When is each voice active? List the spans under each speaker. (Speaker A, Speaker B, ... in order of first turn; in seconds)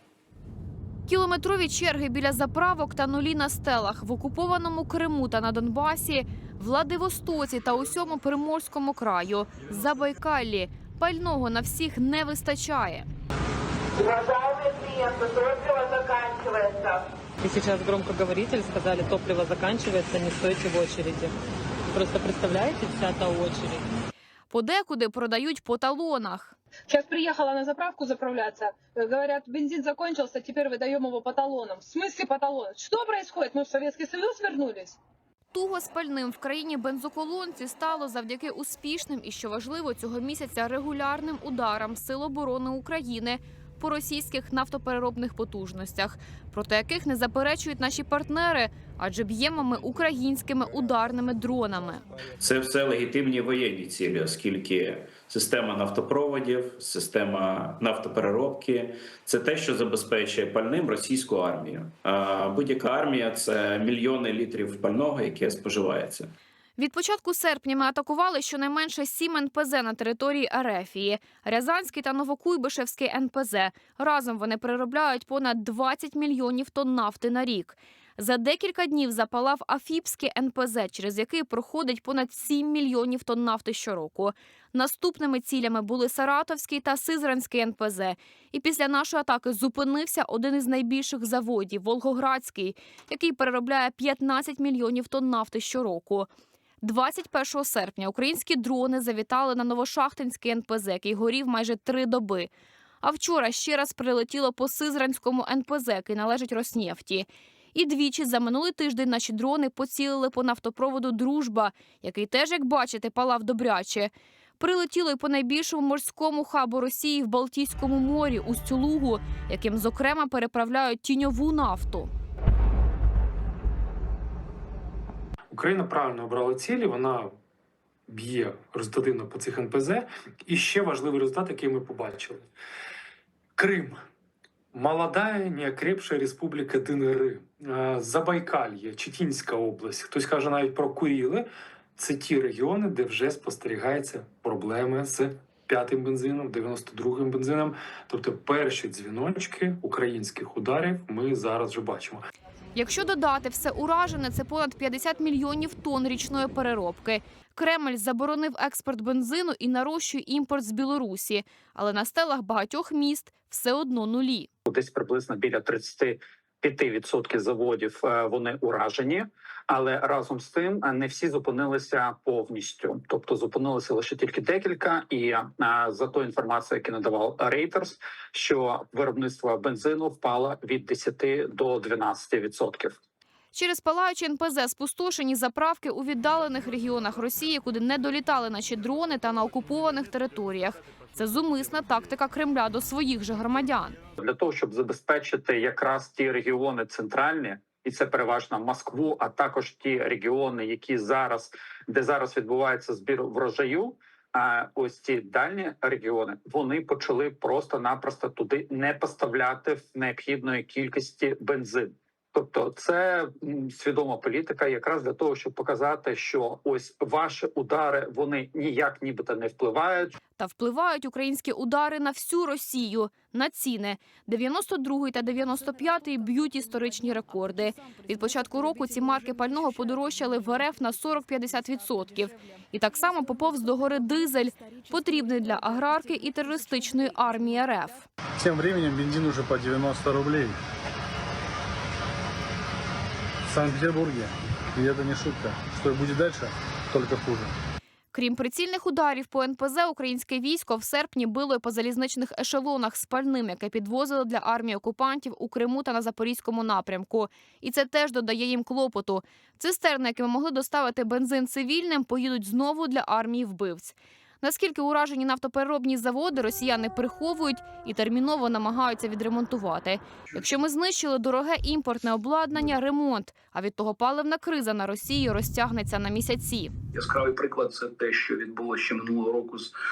Speaker A: 1.1-13.1, 24.5-26.5, 35.5-52.0, 66.8-96.3, 96.8-102.5, 103.0-122.1, 152.8-164.5, 183.5-194.0, 220.4-238.0, 248.1-276.7
Speaker B: 17.4-21.3, 21.9-23.8
Speaker C: 26.9-35.0
Speaker D: 52.4-66.3
Speaker E: 125.5-127.3, 128.1-132.4, 133.6-134.0, 134.7-152.2
Speaker F: 164.7-183.0, 194.2-220.1
Speaker G: 238.4-240.6, 243.5-247.5
Speaker H: 276.9-279.7